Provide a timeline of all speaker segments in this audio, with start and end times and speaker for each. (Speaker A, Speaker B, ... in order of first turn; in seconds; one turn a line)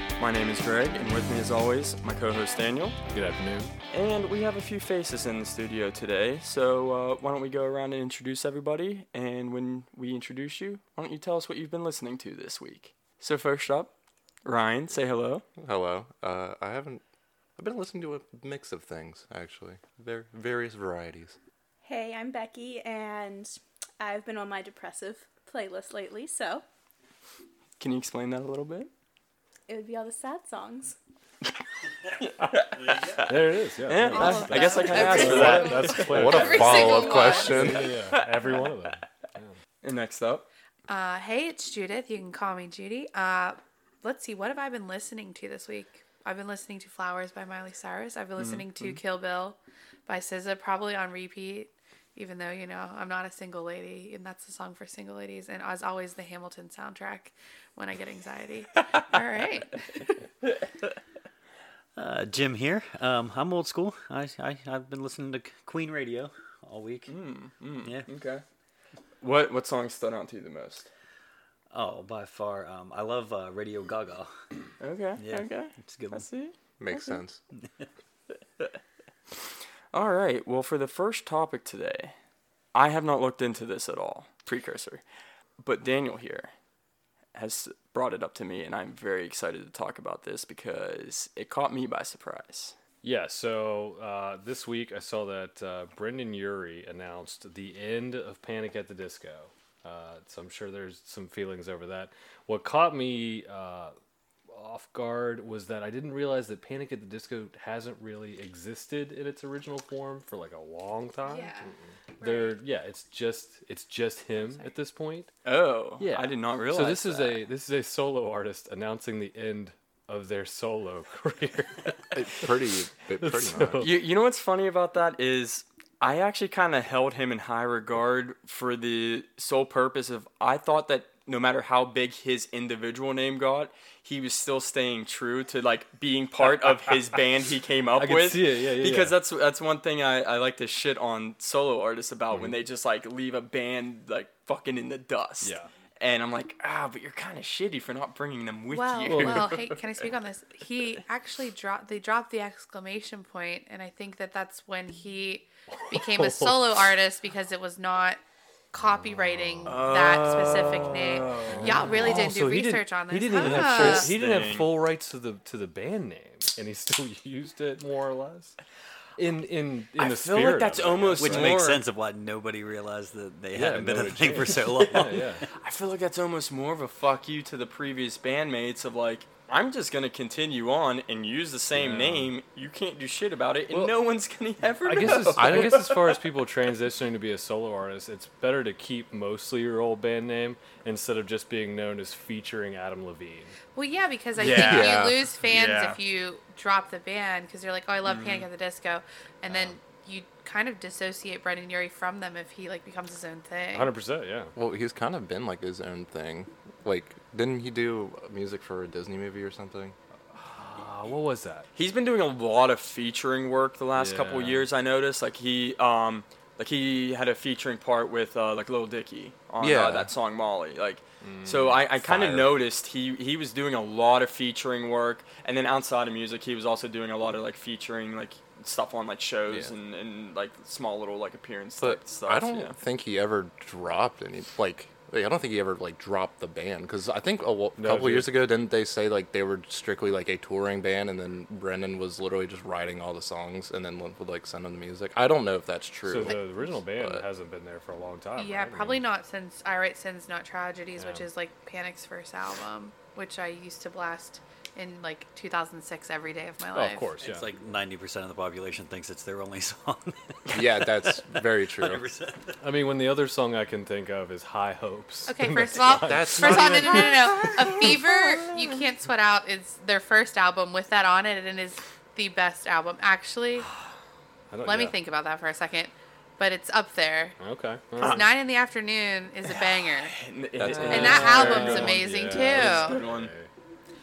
Speaker A: 0.2-3.0
Speaker B: 3.1-3.7
Speaker A: 3.9-13.9
Speaker A: 14.4-15.4
Speaker C: 15.6-17.0
Speaker C: 17.6-21.4
Speaker D: 21.8-26.6
Speaker A: 27.8-28.9
Speaker D: 29.7-31.0
Speaker A: 32.2-33.3
Speaker E: 32.7-33.3
Speaker B: 33.2-39.5
Speaker A: 33.9-37.0
Speaker D: 34.1-35.9
Speaker F: 34.9-37.7
Speaker C: 35.5-37.9
Speaker A: 38.2-38.6
Speaker A: 39.8-40.5
Speaker F: 40.9-60.2
Speaker A: 48.4-49.0
Speaker E: 62.0-67.1
Speaker A: 67.1-68.4
Speaker A: 69.2-70.9
Speaker E: 71.7-74.3
Speaker A: 74.8-76.5
Speaker E: 75.2-76.2
Speaker C: 76.8-77.4
Speaker A: 79.9-82.1
Speaker A: 82.7-85.0
Speaker A: 85.6-86.5
Speaker A: 87.3-92.8
Speaker B: 93.0-103.9
Speaker B: 104.5-115.3
Speaker F: 111.3-112.6
Speaker A: 115.4-117.4
Speaker B: 116.0-122.1
Speaker C: 122.1-123.9
Speaker B: 123.2-124.0
Speaker A: 123.8-150.0
Speaker B: 138.0-139.2
Speaker B: 145.4-145.7
Speaker F: 148.7-158.2
Speaker B: 149.1-149.4
Speaker B: 155.7-156.6
Speaker F: 158.7-164.1
Speaker B: 158.9-159.8
Speaker A: 159.7-162.3
Speaker B: 161.4-168.6
Speaker A: 163.4-164.7
Speaker B: 169.2-171.6
Speaker A: 170.0-171.8
Speaker E: 171.2-175.4
Speaker B: 173.5-175.4
Speaker A: 175.5-186.2
Speaker B: 181.7-182.3
Speaker B: 184.8-193.6
Speaker C: 185.1-185.8
Speaker F: 193.7-203.9
Speaker A: 194.4-196.0
Speaker C: 194.4-195.3
Speaker A: 198.0-198.5
Speaker B: 203.7-204.5
Speaker C: 204.6-209.9
Speaker B: 210.3-211.7
Speaker A: 211.7-232.7
Speaker B: 213.9-214.7
Speaker C: 219.6-220.1
Speaker B: 221.2-221.8
Speaker C: 222.0-222.5
Speaker C: 231.8-247.2
Speaker B: 237.8-238.3
Speaker B: 246.0-249.0
Speaker F: 248.4-257.1
Speaker B: 251.0-251.3
Speaker B: 256.7-257.5
Speaker E: 257.2-262.6
Speaker C: 260.5-262.0
Speaker B: 262.6-266.9
Speaker F: 265.3-273.7
Speaker C: 265.9-268.1
Speaker B: 274.5-275.0
Speaker F: 274.6-277.4
Speaker B: 277.4-278.3
Speaker F: 278.0-280.2
Speaker A: 279.4-283.3
Speaker C: 280.6-281.2
Speaker B: 280.7-283.5
Speaker F: 280.9-283.0